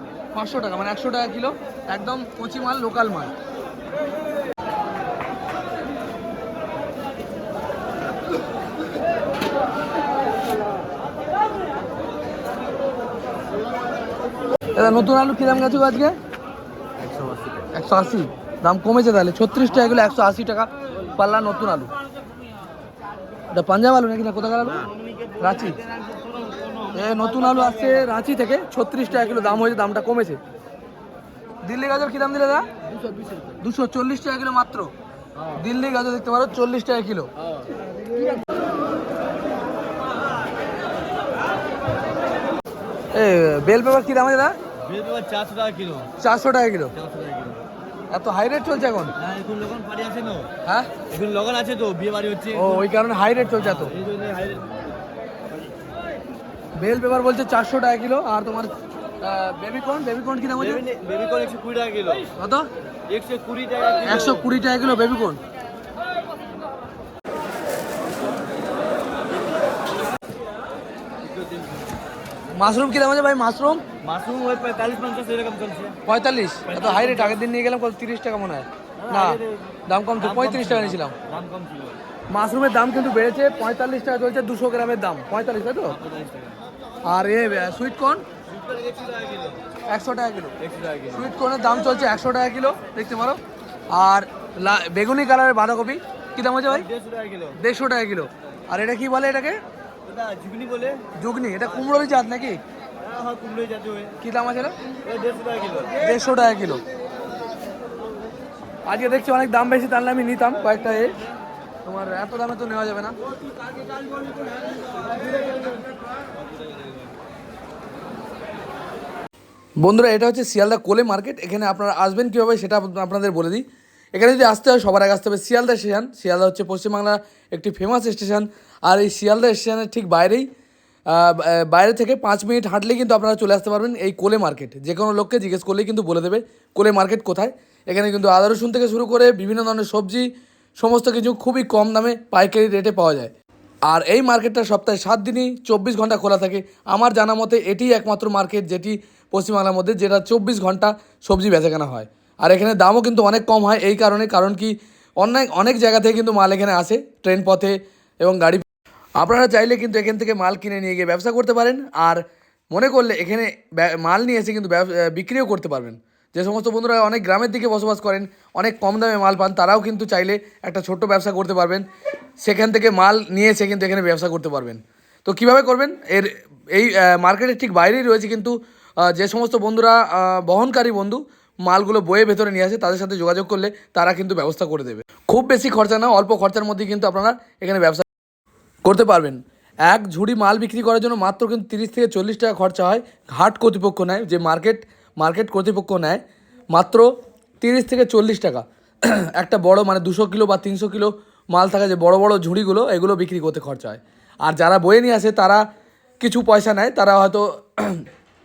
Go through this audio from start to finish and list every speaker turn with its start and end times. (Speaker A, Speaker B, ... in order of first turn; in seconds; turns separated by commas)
Speaker A: 0.3-3.3, Speaker A: 14.8-16.2, Speaker B: 17.1-17.4, Speaker A: 17.7-21.9, Speaker A: 23.5-25.8, Speaker B: 26.1-26.6, Speaker A: 26.9-30.4, Speaker A: 31.6-32.7, Speaker A: 33.6-34.9, Speaker A: 35.5-37.3, Speaker A: 43.1-44.6, Speaker B: 44.8-46.1, Speaker A: 46.2-46.9, Speaker B: 47.0-47.6, Speaker A: 48.1-49.2, Speaker B: 49.2-50.5, Speaker A: 50.6-50.9, Speaker B: 51.1-52.8, Speaker A: 52.5-54.0, Speaker B: 53.5-54.9, Speaker A: 56.8-60.8, Speaker B: 60.6-62.3, Speaker A: 62.4-62.7, Speaker B: 63.1-64.5, Speaker A: 64.0-65.4, Speaker B: 71.2-71.9, Speaker A: 72.6-73.8, Speaker B: 74.0-76.0, Speaker A: 76.1-81.2, Speaker B: 76.7-77.3, Speaker B: 79.0-82.0, Speaker A: 82.3-86.0, Speaker B: 85.9-86.6, Speaker A: 87.1-88.2, Speaker B: 88.5-89.6, Speaker A: 89.9-90.5, Speaker B: 90.6-91.3, Speaker A: 91.1-93.4, Speaker A: 93.9-96.9, Speaker B: 96.7-97.6, Speaker A: 97.6-99.6, Speaker B: 100.0-101.1, Speaker A: 101.2-102.6, Speaker B: 103.0-104.2, Speaker A: 104.2-104.8, Speaker B: 105.0-106.0, Speaker A: 106.0-106.8, Speaker A: 108.9-111.2, Speaker A: 111.8-113.2, Speaker A: 119.8-123.6, Speaker A: 124.1-130.5, Speaker A: 131.1-143.3, Speaker A: 143.9-158.7, Speaker A: 159.2-171.9, Speaker A: 172.4-188.1, Speaker A: 188.8-196.2, Speaker A: 196.7-197.1, Speaker A: 197.6-205.6, Speaker A: 206.2-208.0